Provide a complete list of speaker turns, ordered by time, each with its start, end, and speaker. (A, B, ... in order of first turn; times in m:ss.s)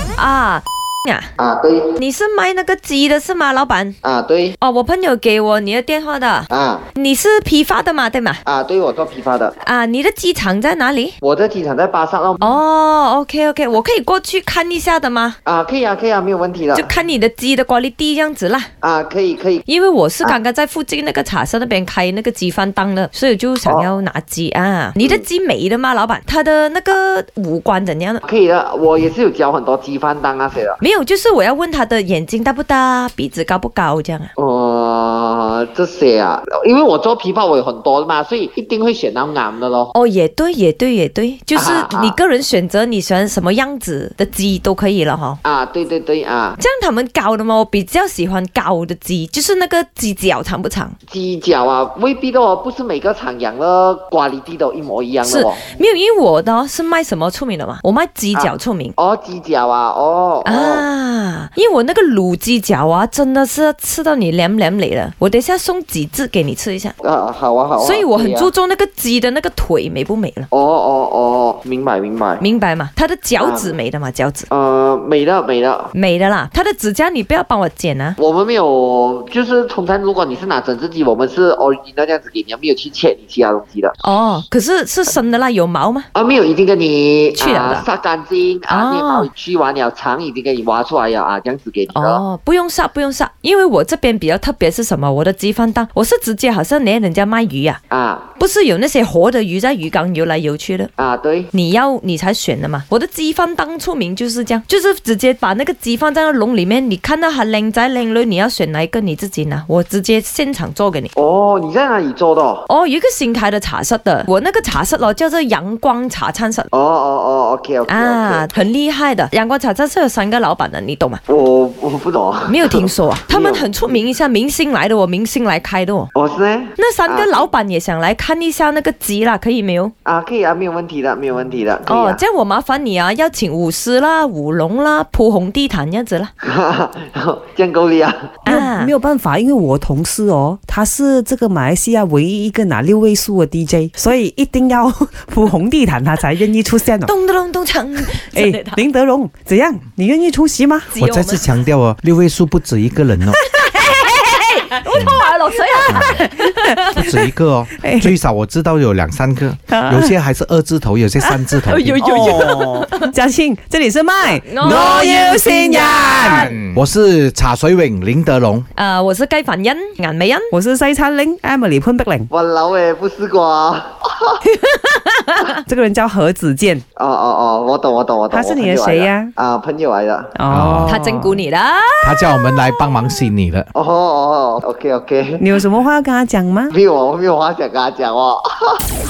0:00.2-0:01.3 A
0:01.4-0:01.9 B
0:02.0-0:04.0 A
0:04.0-0:04.6 B
0:04.6-0:08.4 A
0:06.5-0:06.9 B
0:08.4-0:09.6 B
0:09.6-0:11.2 A
0:11.2-0:12.6 B
0:12.4-0:15.4 A
0:15.4-0:16.9 B
0:16.7-0:18.7 A
0:18.8-0:19.6 B
0:19.7-0:28.2 A
0:23.6-0:23.9 B
0:25.0-0:25.2 B
0:28.2-0:30.8 B
0:30.8-0:34.3 A
0:34.4-0:39.9 B
0:39.9-0:45.4 A
0:41.6-0:42.2 B
0:45.4-0:46.6 B
0:46.6-0:51.0 A
0:51.1-0:55.6 B
0:55.2-0:59.0 A
0:58.4-1:00.9 B
1:00.4-1:07.0 A
1:07.0-1:08.5 B
1:07.8-1:10.5 A
1:10.5-1:12.4 B
1:12.4-1:14.5 A
1:13.4-1:13.8 B
1:14.5-1:15.9 B
1:15.9-1:18.2 A
1:18.2-1:24.0 B
1:24.0-1:26.1 A
1:26.2-1:32.2 B
1:27.4-1:27.8 A
1:28.7-1:29.3 A
1:31.9-1:37.8 A
1:37.9-1:38.3 B
1:38.4-1:40.9 A
1:41.0-1:41.5 B
1:41.5-1:51.1 A
1:51.2-1:52.7 B
1:52.7-1:56.7 A
1:56.7-1:58.6 B
1:57.9-2:01.2 A
2:01.3-2:04.0 B
2:02.5-2:06.1 A
2:06.1-2:07.5 B
2:06.8-2:09.9 A
2:10.0-2:12.2 B
2:11.9-2:16.3 A
2:16.4-2:18.4 B
2:18.4-2:18.9 A
2:18.5-2:27.1 C
2:27.0-2:28.8 A
2:28.3-2:30.9 C
2:30.9-2:31.5 A
2:31.0-2:33.4 D
2:33.4-2:37.1 A
2:34.9-2:35.2 D
2:35.9-2:36.2 D
2:36.9-2:42.2 D
2:37.8-2:38.2 C
2:39.7-2:40.1 C
2:41.7-2:43.1 A
2:41.9-2:46.5 C
2:44.2-2:46.7 A
2:44.6-2:45.1 D
2:46.2-2:48.7 D
2:48.8-2:50.5 A
2:50.5-2:52.3 C
2:52.3-2:54.4 B
2:54.9-2:55.4 A
2:55.7-2:56.8 C
2:57.0-3:00.4 B
2:58.3-2:59.3 C
3:00.4-3:01.4 C
3:00.5-3:01.0 D
3:00.8-3:03.2 A
3:02.0-3:03.7 D
3:03.8-3:05.5 B
3:05.4-3:06.7 C
3:06.7-3:08.8 B